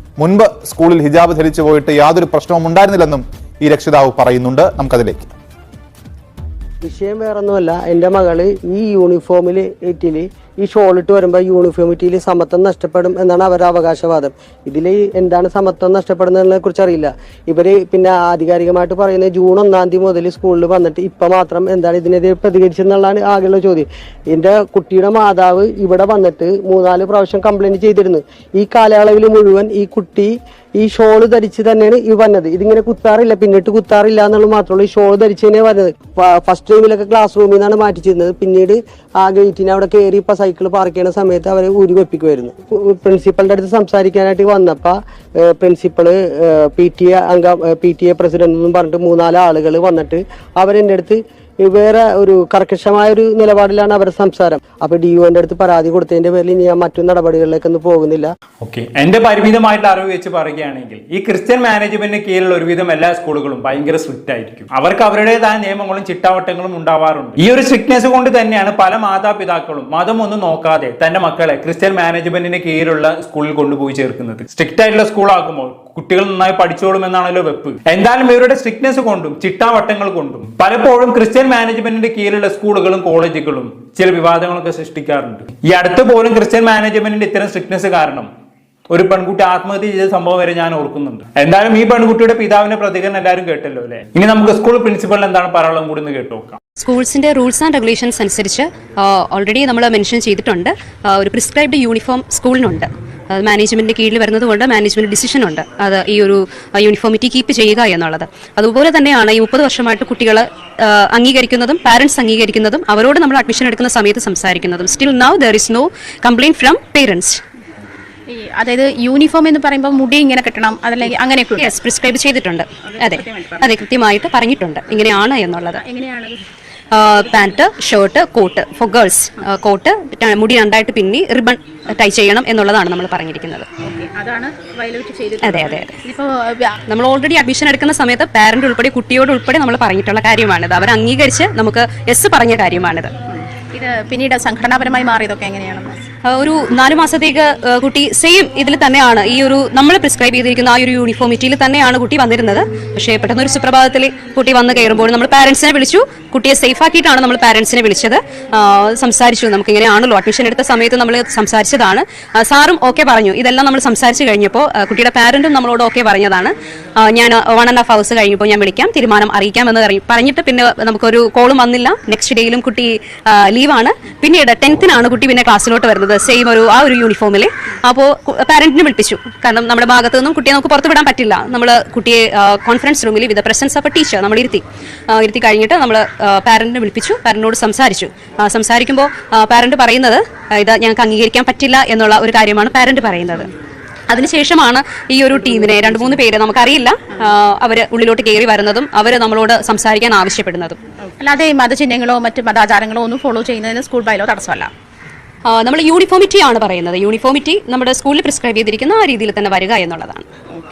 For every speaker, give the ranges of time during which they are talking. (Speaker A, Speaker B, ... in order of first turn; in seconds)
Speaker A: 0.2-5.3
Speaker B: 6.8-58.3
Speaker C: 58.6-88.3, 88.9-96.6
Speaker D: 96.8-117.4, 121.6-125.8, 126.9-133.7, 135.4-136.0, 136.9-143.1, 146.3-193.5, 194.1-200.8, 205.5-210.3
Speaker E: 118.3-121.7, 123.0-123.7, 125.8-126.4, 133.8-136.8, 143.3-146.0, 201.1-204.7